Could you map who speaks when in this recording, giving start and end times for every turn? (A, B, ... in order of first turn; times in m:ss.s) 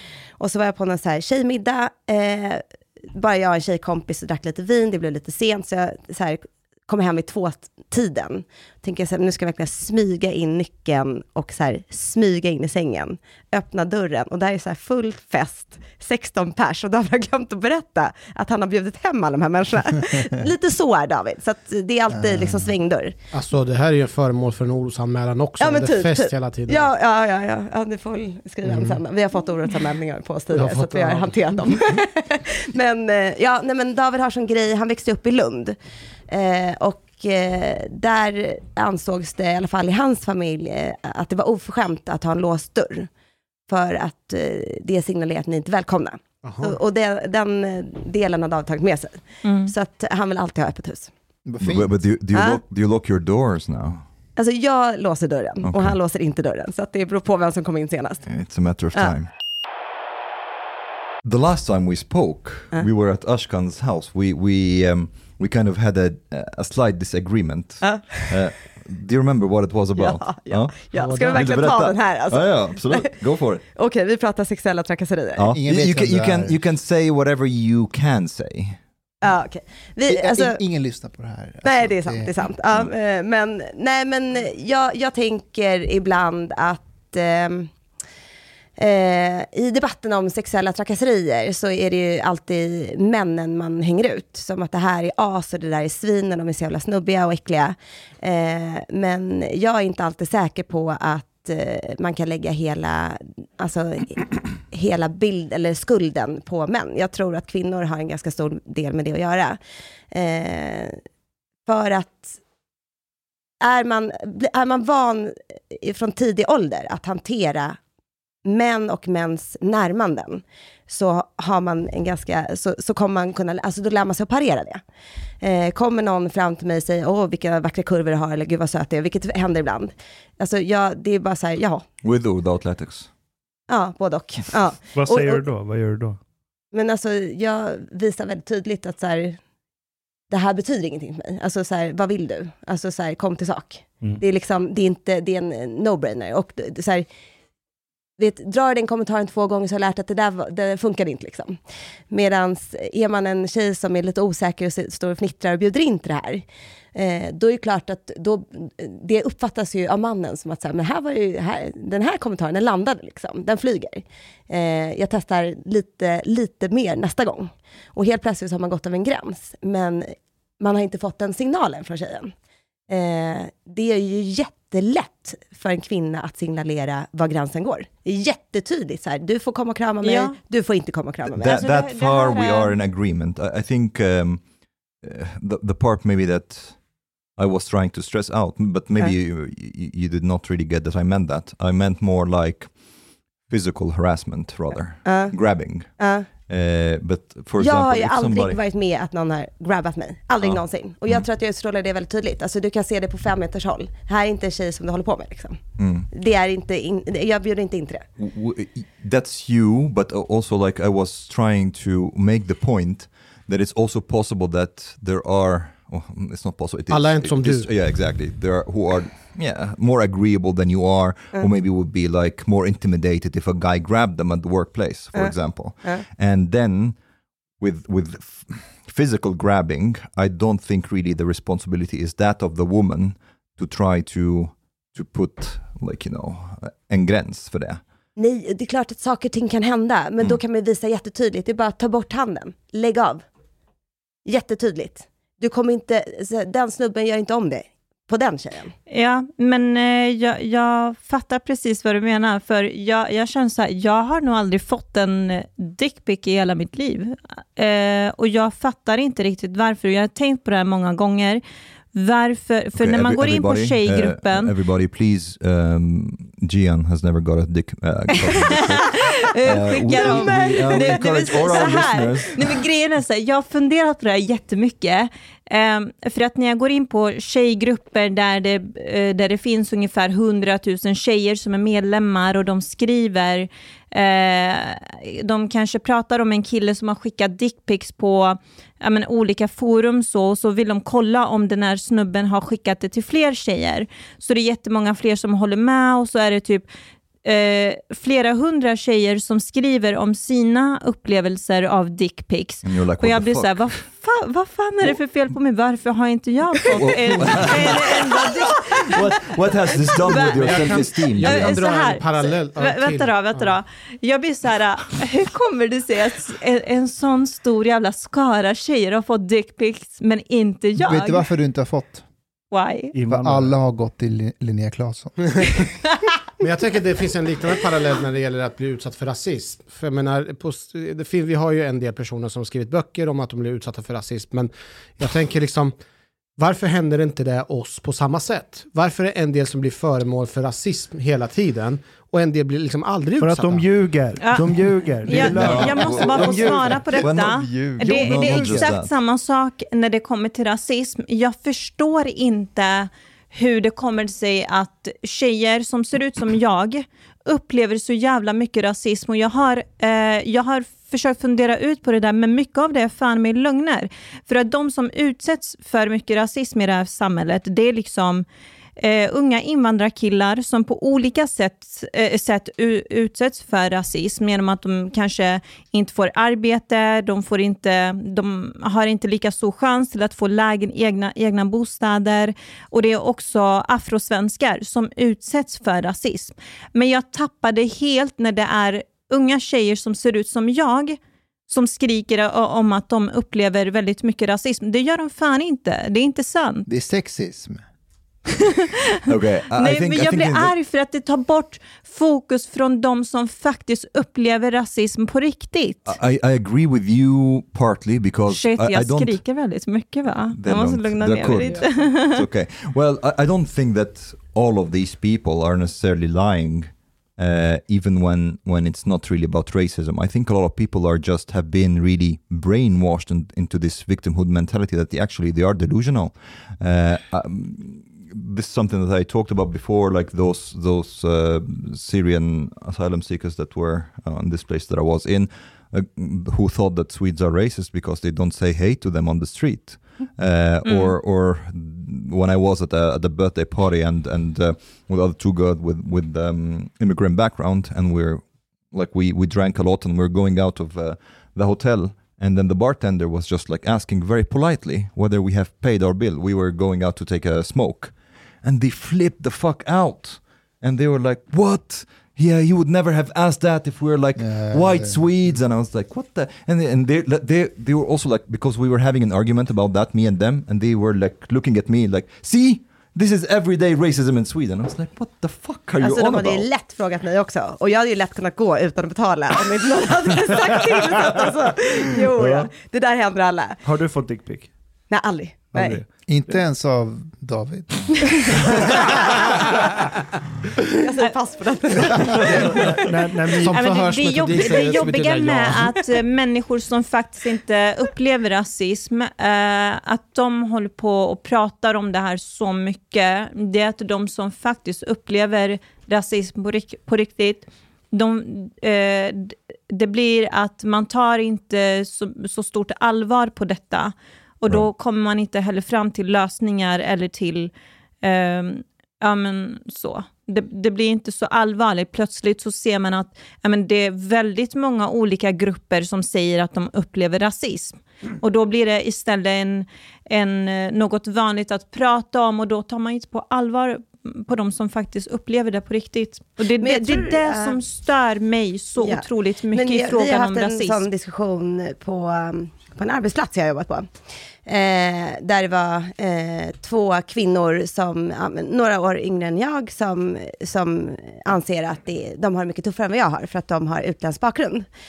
0:00.4-0:23.1 A
0:22.1-0:22.7 B
0:23.3-0:26.9 C
0:25.6-0:35.8 A
0:28.6-0:29.0 C
0:30.5-0:31.4 C
0:36.3-0:43.1 A
0:43.7-0:51.1 A
0:46.4-0:46.8 C
0:49.4-0:49.7 D
0:51.4-0:52.0 B
0:51.6-0:54.0 E
0:52.3-0:52.6 A
0:54.4-0:58.2 A
0:55.6-0:56.0 E
0:58.2-0:59.3 E
1:01.2-1:13.6 E
1:07.8-1:08.4 A
1:09.9-1:13.1 A
1:10.9-1:11.7 C
1:13.7-1:15.4 A
1:15.4-1:18.8 E
1:15.5-1:16.6 B
1:19.2-1:20.6 A
1:20.1-1:22.3 B
1:21.6-1:27.7 A
1:28.8-1:49.6 A
1:50.1-1:51.0 A
1:51.6-1:52.4 A
1:53.6-1:57.8 A
1:58.4-2:04.8 A
2:05.4-2:11.8 A
2:12.0-2:13.1 E
2:13.7-2:15.4 A
2:14.9-2:16.2 F
2:16.7-2:19.4 A
2:20.3-2:27.0 A
2:28.2-2:31.6 A
2:32.1-2:52.3 A
2:52.9-3:01.6 A
3:00.0-3:00.4 D
3:01.4-3:04.5 E
3:01.4-3:02.8 D
3:05.0-3:12.8 E
3:13.4-3:18.6 E
3:15.0-3:16.3 A
3:17.6-3:25.6 A
3:20.4-3:21.3 E
3:25.8-3:26.1 E
3:26.1-3:28.0 A
3:28.2-3:47.0 E
3:36.9-3:37.7 C
3:45.1-3:46.0 A
3:47.6-3:57.8 E
3:58.2-4:03.2 A
4:04.2-4:08.7 A
4:08.9-4:21.4 D
4:21.9-4:24.5 D
4:22.8-4:32.4 E
4:28.3-4:56.6 D
4:29.7-4:32.1 A
4:57.2-5:09.3 D
5:02.6-5:03.8 E
5:06.7-5:11.6 E
5:09.9-5:10.6 D
5:10.2-5:13.5 C
5:11.2-5:21.3 D
5:20.8-5:22.0 B
5:22.5-5:22.9 D
5:22.9-5:23.5 F
5:23.1-5:25.6 B
5:26.4-5:35.8 C
5:36.4-5:43.8 C
5:43.2-5:47.0 F
5:44.2-6:08.2 D
5:45.1-5:48.9 E
5:45.4-5:46.6 B
5:47.8-5:48.7 F
6:08.8-6:36.7 D
6:36.7-6:37.6 B
6:39.1-6:40.5 E
6:39.6-6:45.9 D
6:45.8-6:49.2 E
6:48.3-6:52.2 D
6:50.4-7:56.4 E
6:51.3-6:51.9 A
7:20.6-7:20.9 D
7:44.2-7:45.0 B
7:55.8-8:03.6 A
8:02.2-8:02.5 F
8:03.6-8:04.5 F
8:04.9-8:05.8 A
8:05.5-8:05.9 F
8:06.1-8:08.5 B
8:10.8-8:12.9 A
8:12.2-8:12.6 C
8:12.6-8:13.8 F
8:13.3-8:15.7 C
8:13.4-8:37.5 D
8:38.0-9:00.9 D
8:56.6-8:57.6 A
8:58.8-9:03.9 A
9:04.4-9:14.7 A